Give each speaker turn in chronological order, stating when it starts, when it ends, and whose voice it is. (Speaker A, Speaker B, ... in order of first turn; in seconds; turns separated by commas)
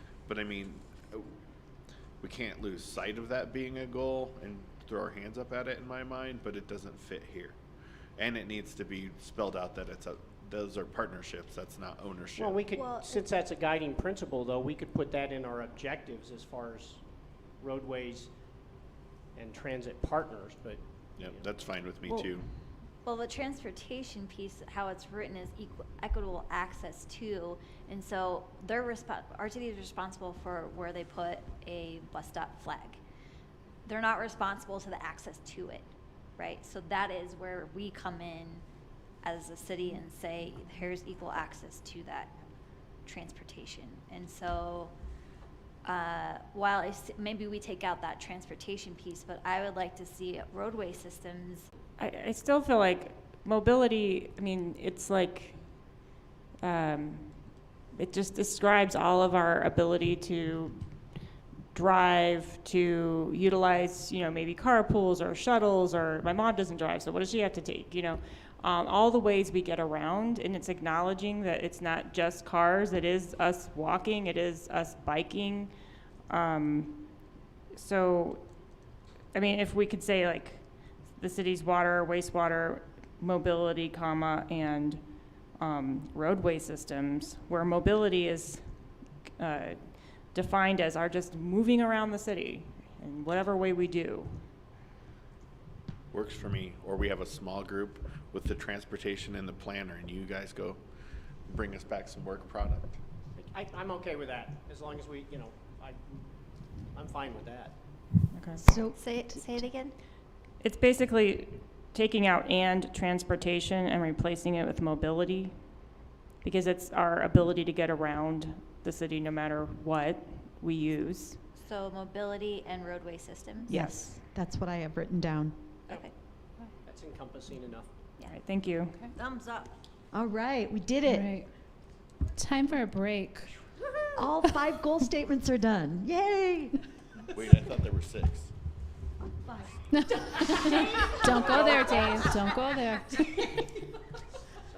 Speaker A: 0.3-1.3, Speaker A: 2.2-7.5, Speaker A: 8.2-12.6, Speaker B: 12.4-17.0, Speaker B: 17.6-18.3, Speaker B: 19.4-21.4, Speaker A: 21.2-22.5, Speaker C: 23.0-33.0, Speaker C: 33.9-35.9, Speaker C: 36.4-38.6, Speaker C: 39.2-42.3, Speaker C: 43.0-44.9, Speaker C: 45.8-51.7, Speaker D: 52.0-56.0, Speaker D: 56.6-60.9, Speaker D: 61.7-75.7, Speaker D: 76.3-77.2, Speaker D: 77.7-78.4, Speaker D: 79.3-85.0, Speaker D: 85.6-94.5, Speaker A: 96.1-100.8, Speaker A: 101.5-103.0, Speaker B: 103.4-106.2, Speaker B: 106.9-107.8, Speaker D: 108.3-108.7, Speaker E: 108.6-109.5, Speaker C: 108.9-110.0, Speaker D: 110.6-115.8, Speaker D: 116.4-121.4, Speaker C: 121.6-123.8, Speaker D: 123.7-124.2, Speaker E: 123.7-125.6, Speaker B: 126.8-127.9, Speaker D: 128.3-129.0, Speaker C: 129.1-129.7, Speaker E: 130.1-131.3, Speaker F: 131.1-131.5, Speaker F: 132.3-133.5, Speaker E: 134.2-136.8, Speaker A: 137.2-138.5, Speaker F: 139.9-143.5